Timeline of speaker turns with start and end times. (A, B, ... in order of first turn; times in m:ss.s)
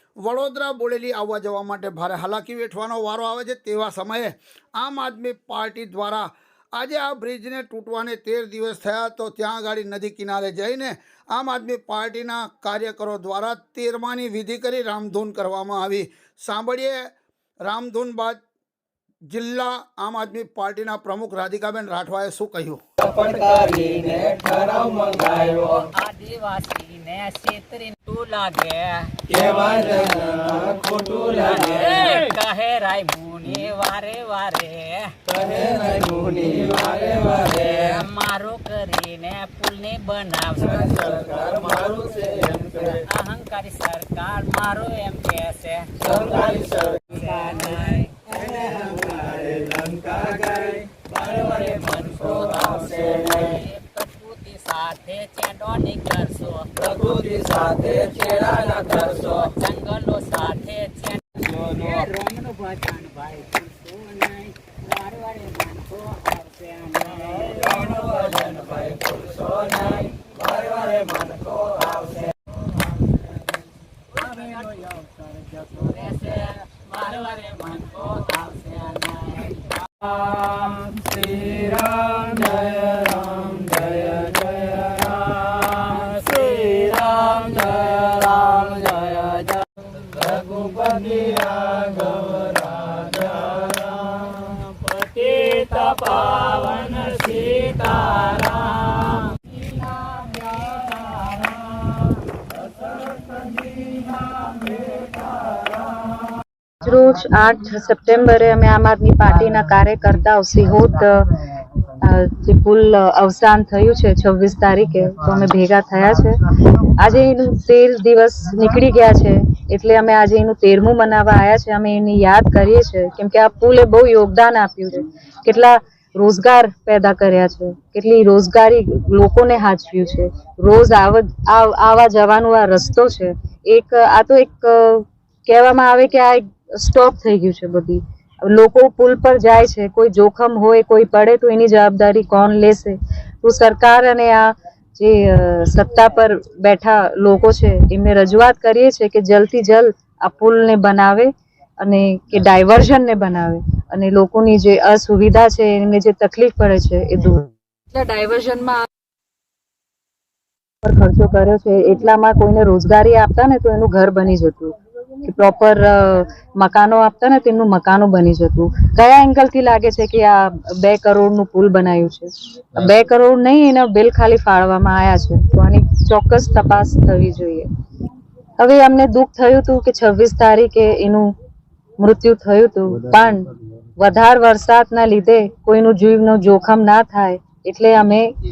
0:00.2-0:17.1 A
0:17.6-0:18.4 A
0:19.3-0:22.8 A
0:23.0-0:25.9 B
0:25.6-0:29.2 C
0:29.3-0:32.0 B
0:31.4-0:35.2 C
0:35.3-0:37.9 B
0:37.6-0:41.2 C
0:40.7-0:43.0 B
0:43.0-0:48.3 C
0:46.0-0:47.2 B
0:48.3-0:53.5 B
0:51.0-0:56.8 C
0:56.8-0:59.4 B
0:58.0-1:10.2 C
1:01.5-1:01.9 B
1:07.6-1:12.0 B
1:14.2-1:20.1 C
1:20.5-1:26.0 B
1:25.8-1:29.4 C
1:26.5-1:29.4 B
1:30.1-1:34.4 B
1:34.6-1:39.3 C
1:40.4-1:40.7 C
1:46.8-2:31.3 D
2:31.8-2:38.8 D
2:40.8-2:57.7 D
2:58.6-3:01.3 D
3:02.0-3:08.3 D